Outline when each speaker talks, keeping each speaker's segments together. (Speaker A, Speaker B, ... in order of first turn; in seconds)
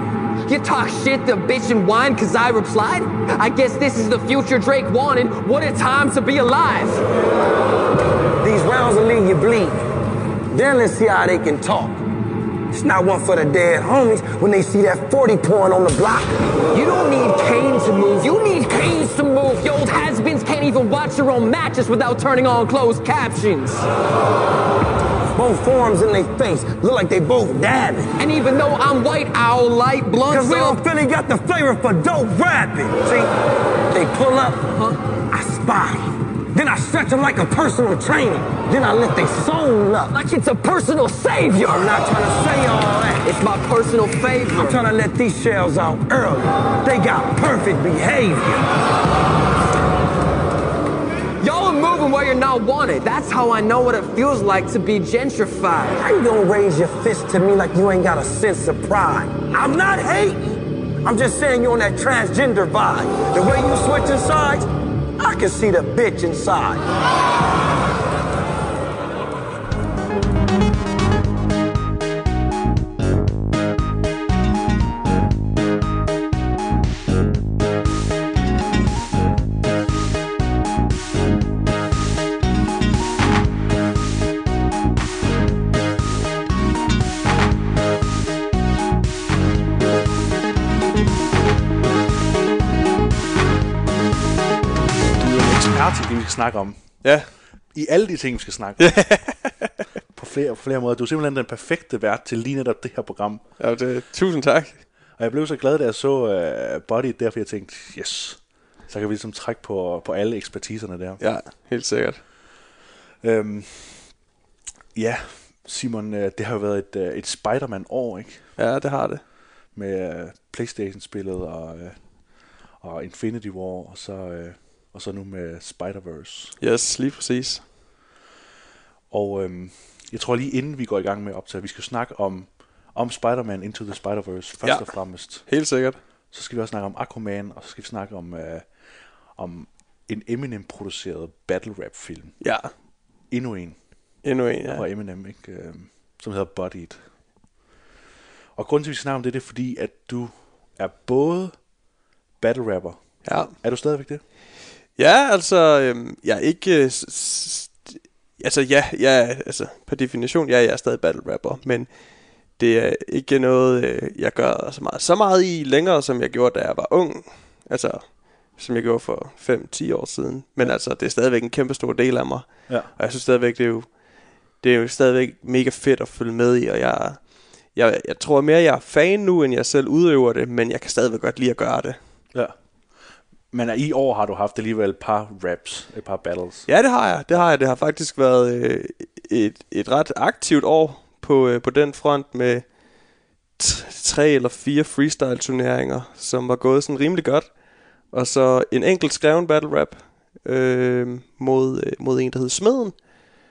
Speaker A: 0.5-7.0, 16.7-23.8, 28.2-30.8, 40.1-41.9, 43.2-44.8, 51.4-56.0
Speaker B: 8.4-9.8, 10.5-12.0, 12.7-16.4, 25.3-28.1, 30.3-33.3, 33.9-40.2, 41.5-43.3, 44.5-48.6, 56.0-64.7, 65.2-66.8
Speaker C: 95.2-96.9, 97.7-99.1, 100.1-103.4, 105.2-111.2, 113.2-114.1, 114.9-118.4, 119.7-122.0, 122.8-126.5, 129.1-135.4, 136.3-138.7, 139.3-142.3, 143.3-143.8, 144.7-147.0, 148.6-151.5, 152.4-153.0, 153.5-154.2, 183.5-186.7
Speaker D: 97.0-97.3, 98.8-99.7, 103.6-104.8, 111.2-112.2, 118.6-119.2, 126.6-127.6, 135.4-136.0, 142.4-142.7, 144.2-144.8, 153.2-153.5, 155.0-161.9, 162.6-173.9, 174.6-177.2, 177.7-182.0, 186.7-192.6, 193.6-197.5, 198.1-203.0